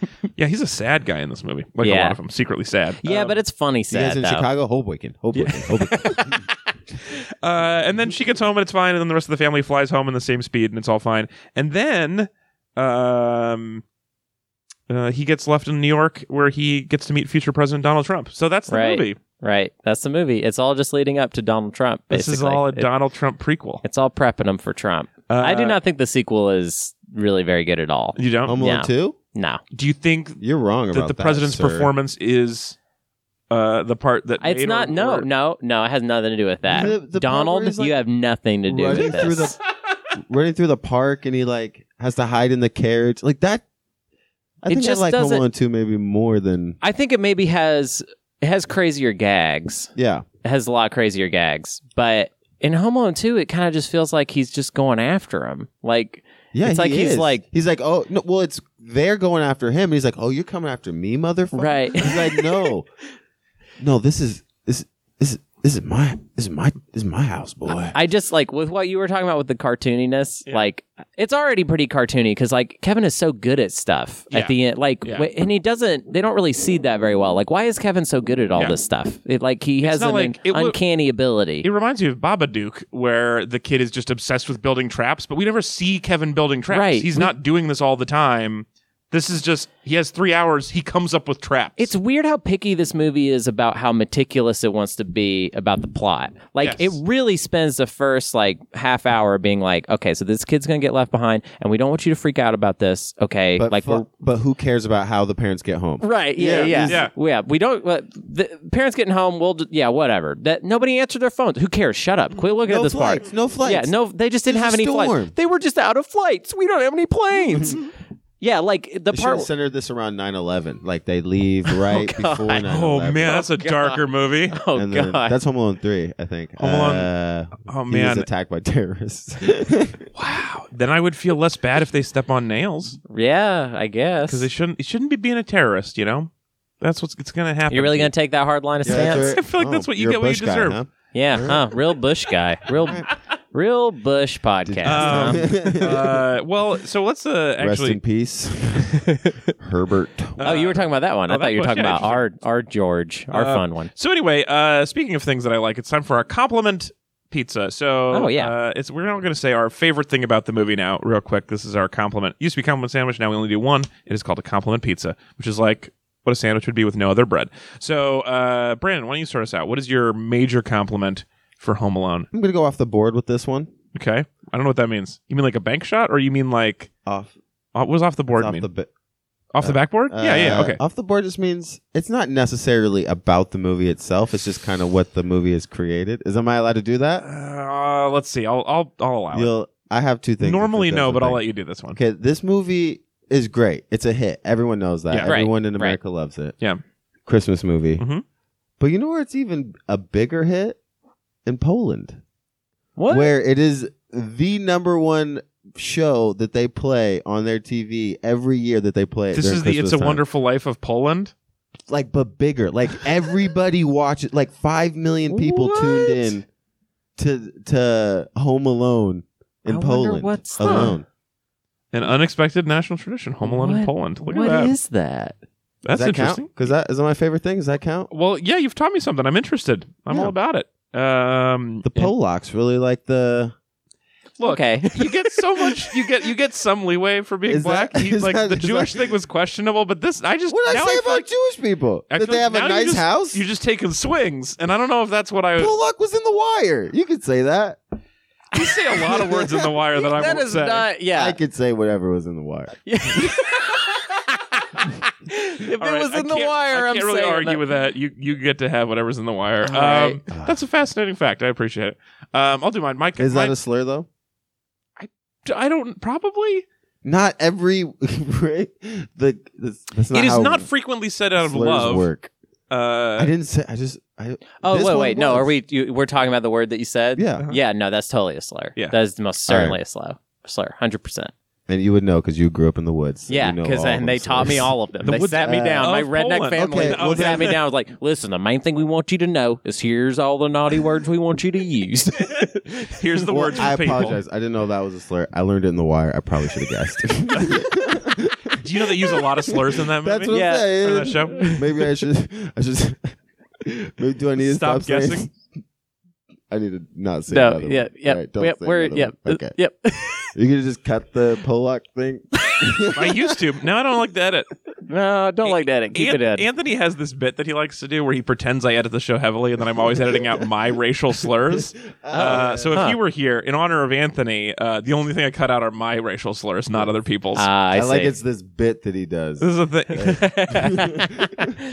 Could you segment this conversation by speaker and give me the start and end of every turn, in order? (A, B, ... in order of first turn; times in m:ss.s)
0:00.4-0:03.4 A
0:01.8-0:02.2 B
0:03.0-0:04.5 B
0:03.9-0:06.4 C
0:05.4-0:06.5 B
0:07.2-0:13.8 A
0:14.9-0:19.2 A
0:18.7-0:22.9 B
0:22.1-0:23.8 A
0:23.8-0:29.6 B
0:25.3-0:25.8 A
0:28.2-0:28.6 A
0:28.5-0:29.2 C
0:29.7-0:30.4 A
0:30.4-0:31.9 C
0:30.9-0:32.8 A
0:33.5-0:35.3 A
0:34.4-0:39.6 B
0:36.7-0:38.0 C
0:38.7-0:39.6 C
0:40.3-0:43.6 C
0:44.6-0:46.8 C
0:44.7-0:45.4 B
0:46.8-0:49.9 B
0:50.0-0:50.2 C
0:50.4-0:57.4 B
0:56.5-1:02.9 C
1:01.5-1:02.7 B
1:03.8-1:08.0 C
1:07.9-1:21.7 B
1:14.3-1:15.3 A
1:19.8-1:20.8 A
1:21.6-1:31.9 A
1:26.7-1:27.3 B
1:31.8-1:44.0 B
1:36.6-1:37.0 A
1:43.6-1:47.0 C
1:46.0-1:59.5 B
1:46.8-1:47.1 A
1:52.7-1:53.9 C
1:54.4-1:55.3 C
1:59.1-2:03.4 C
2:01.7-2:02.7 B
2:02.7-2:04.6 A
2:03.3-2:04.0 B
2:04.5-2:05.3 B
2:04.7-2:10.0 C
2:06.6-2:07.1 A
2:07.6-2:08.3 A
2:10.1-2:13.0 A
2:13.1-2:14.5 B
2:14.2-2:18.1 A
2:17.7-2:19.4 B
2:18.8-2:21.7 C
2:18.9-2:20.8 A
2:21.1-2:25.8 B
2:22.8-2:23.1 C
2:24.6-2:26.1 C
2:24.8-2:28.0 A
2:27.6-2:29.1 C
2:28.9-2:29.5 B
2:29.6-2:30.5 C
2:30.4-2:32.2 A
2:30.4-2:33.9 B
2:33.3-2:52.3 A
2:38.1-2:38.5 B
2:52.3-2:53.7 C
2:53.9-2:56.9 A
2:57.0-2:57.4 C
2:57.7-2:58.7 A
2:58.4-2:58.9 C
2:59.5-3:00.8 A
2:59.6-3:07.2 C
3:07.2-3:09.5 A
3:09.3-3:11.4 C
3:10.4-3:12.0 A
3:11.9-3:16.5 C
3:15.1-3:15.4 A
3:15.2-3:16.0 B
3:17.2-3:18.0 C
3:18.0-3:18.2 A
3:18.8-3:20.8 C
3:21.4-3:22.2 C
3:23.0-3:23.3 B
3:23.1-3:30.2 C
3:29.3-3:31.3 A
3:31.9-3:36.4 C
3:35.3-3:36.3 B
3:37.2-3:41.0 C
3:39.7-3:40.9 B
3:40.6-3:40.9 A
3:41.9-3:44.7 A
3:43.4-3:45.4 B
3:45.8-3:46.5 A
3:45.9-3:48.1 C
3:48.1-3:52.1 A
3:51.8-3:53.5 C
3:54.4-4:01.3 A
3:54.4-3:56.0 B
3:57.5-3:59.0 C
4:00.5-4:03.4 C
4:02.1-4:05.7 A
4:05.6-4:07.8 C
4:08.5-4:10.9 A
4:09.0-4:09.7 C
4:10.1-4:11.4 B
4:11.1-4:12.8 C
4:12.9-4:17.6 B
4:15.7-4:23.6 A
4:19.6-4:20.2 B
4:20.3-4:20.6 C
4:23.2-4:24.1 C
4:25.0-4:26.6 A
4:27.0-4:30.7 C
4:30.1-4:32.1 A
4:31.4-4:32.3 C
4:32.7-4:33.3 A
4:33.2-4:35.5 C
4:34.6-4:41.3 B
4:37.2-4:37.4 C
4:39.5-4:39.8 C
4:41.7-4:44.7 C
4:43.3-4:53.7 B
4:45.0-4:47.6 A
4:45.4-4:45.9 C
4:46.6-4:47.5 C
4:52.4-4:54.2 A
4:53.3-5:05.4 C
4:58.6-5:01.5 A
5:00.3-5:01.8 B
5:04.4-5:05.3 A
5:06.5-5:09.6 C
5:07.3-5:10.3 B
5:10.3-5:13.3 C
5:12.4-5:12.8 B
5:12.9-5:14.5 A
5:14.8-5:16.4 B
5:15.4-5:27.5 A
5:21.7-5:22.8 C
5:22.1-5:23.0 B
5:27.4-5:28.1 B
5:27.7-5:31.3 C
5:29.4-5:30.9 A
5:30.0-5:31.6 B